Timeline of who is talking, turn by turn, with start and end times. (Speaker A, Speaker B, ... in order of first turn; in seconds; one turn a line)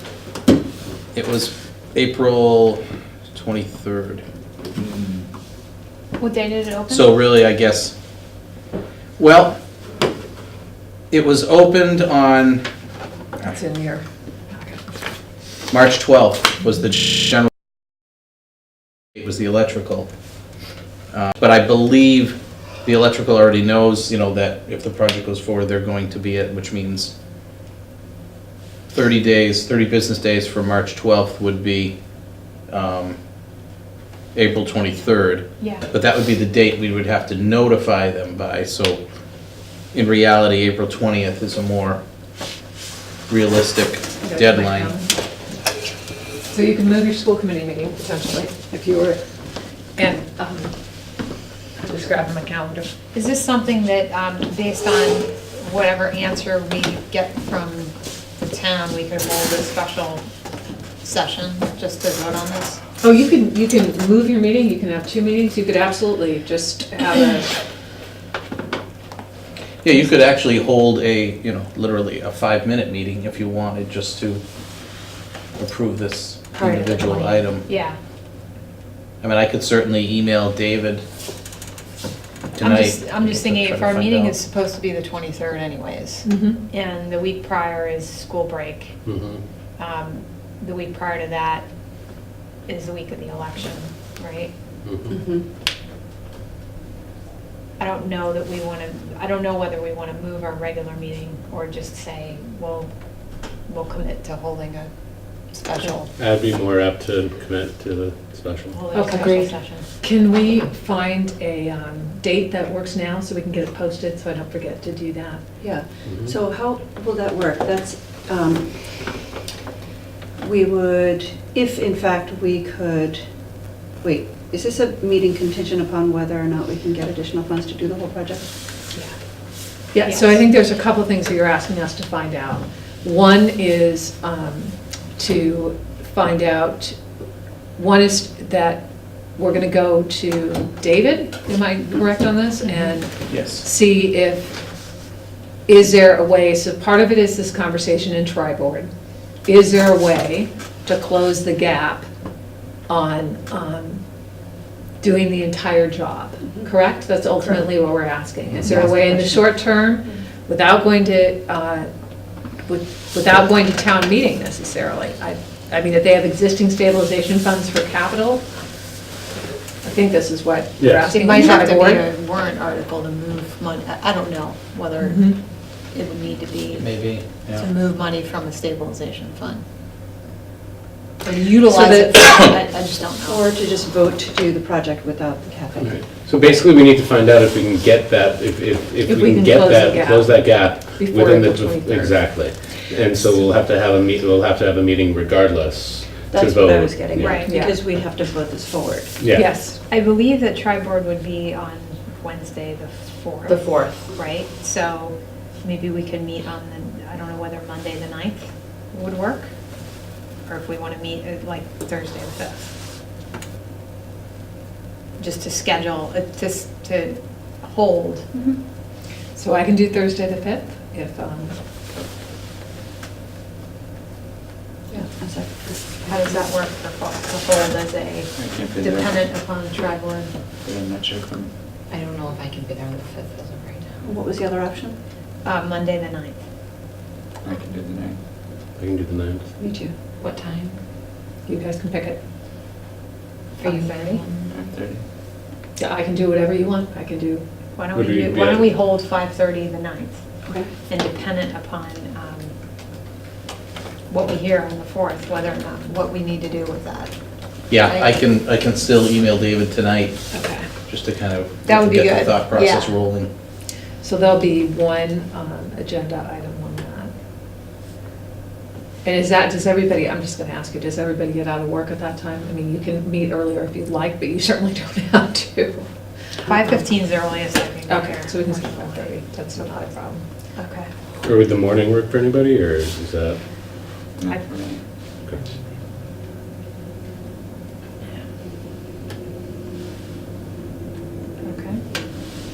Speaker A: 1.1-2.8
Speaker A: 3.3-4.2
Speaker B: 4.8-5.1
Speaker C: 6.2-7.2
Speaker A: 6.9-7.9
Speaker A: 9.2-9.6
Speaker A: 11.1-12.7
Speaker D: 13.4-14.8
Speaker A: 15.7-17.5
Speaker A: 19.1-20.1
Speaker A: 21.1-27.1
Speaker A: 28.9-31.9
Speaker A: 32.7-33.2
Speaker A: 34.3-39.0
Speaker C: 35.6-35.9
Speaker A: 39.9-42.0
Speaker A: 43.3-44.9
Speaker D: 44.2-45.1
Speaker D: 46.5-49.2
Speaker D: 50.0-50.7
Speaker D: 51.8-52.9
Speaker C: 53.1-60.2
Speaker C: 61.0-62.8
Speaker D: 63.0-67.6
Speaker A: 69.8-74.4
Speaker A: 75.6-77.7
Speaker C: 76.6-78.0
Speaker A: 79.2-81.0
Speaker A: 82.5-84.3
Speaker C: 82.6-88.9
Speaker D: 86.2-86.6
Speaker E: 89.0-89.4
Speaker C: 89.8-91.7
Speaker C: 92.7-94.5
Speaker E: 94.8-95.1
Speaker F: 95.1-95.5
Speaker C: 97.8-102.9
Speaker C: 103.7-104.9
Speaker C: 105.5-106.1
Speaker E: 106.2-108.8
Speaker C: 108.7-109.9
Speaker D: 108.9-115.4
Speaker F: 115.6-119.3
Speaker E: 116.0-116.3
Speaker F: 120.4-128.4
Speaker D: 129.9-137.0
Speaker C: 130.0-130.4
Speaker D: 137.8-144.6
Speaker A: 143.3-143.7
Speaker D: 145.7-148.9
Speaker D: 149.4-152.1
Speaker D: 152.9-154.0
Speaker D: 155.0-161.9
Speaker F: 158.6-159.4
Speaker D: 162.6-168.4
Speaker D: 169.8-172.0
Speaker E: 170.8-171.3
Speaker C: 171.1-179.6
Speaker D: 175.0-175.4
Speaker A: 176.7-177.7
Speaker C: 181.2-183.4
Speaker D: 181.5-182.3
Speaker F: 183.2-186.0
Speaker E: 185.8-197.4
Speaker D: 189.1-192.4
Speaker F: 196.3-199.2
Speaker C: 197.2-197.5
Speaker D: 197.4-197.8
Speaker E: 199.2-199.5
Speaker D: 199.3-199.8
Speaker C: 199.7-209.5
Speaker C: 210.4-212.7
Speaker C: 215.2-218.3
Speaker D: 219.3-221.6
Speaker F: 224.9-226.4
Speaker C: 226.0-230.3
Speaker B: 228.3-229.3
Speaker B: 230.6-231.5
Speaker G: 232.0-234.0
Speaker F: 234.0-235.0
Speaker C: 235.4-236.4
Speaker B: 237.4-238.2
Speaker E: 238.8-239.5
Speaker F: 239.6-240.2
Speaker G: 240.2-240.5
Speaker D: 241.4-242.2
Speaker C: 243.6-244.2
Speaker B: 244.4-245.0
Speaker D: 245.8-247.4
Speaker C: 247.7-250.2
Speaker E: 247.9-248.7
Speaker F: 250.5-250.7
Speaker C: 250.8-252.5
Speaker C: 254.1-257.1
Speaker A: 257.7-260.2
Speaker C: 257.7-258.2
Speaker D: 260.3-260.7
Speaker A: 260.9-263.3
Speaker C: 261.6-263.0
Speaker D: 264.0-267.1
Speaker D: 269.0-275.9
Speaker C: 276.4-279.1
Speaker D: 277.9-280.2
Speaker C: 280.6-280.9
Speaker E: 281.2-283.4
Speaker B: 284.2-284.8
Speaker C: 291.4-292.3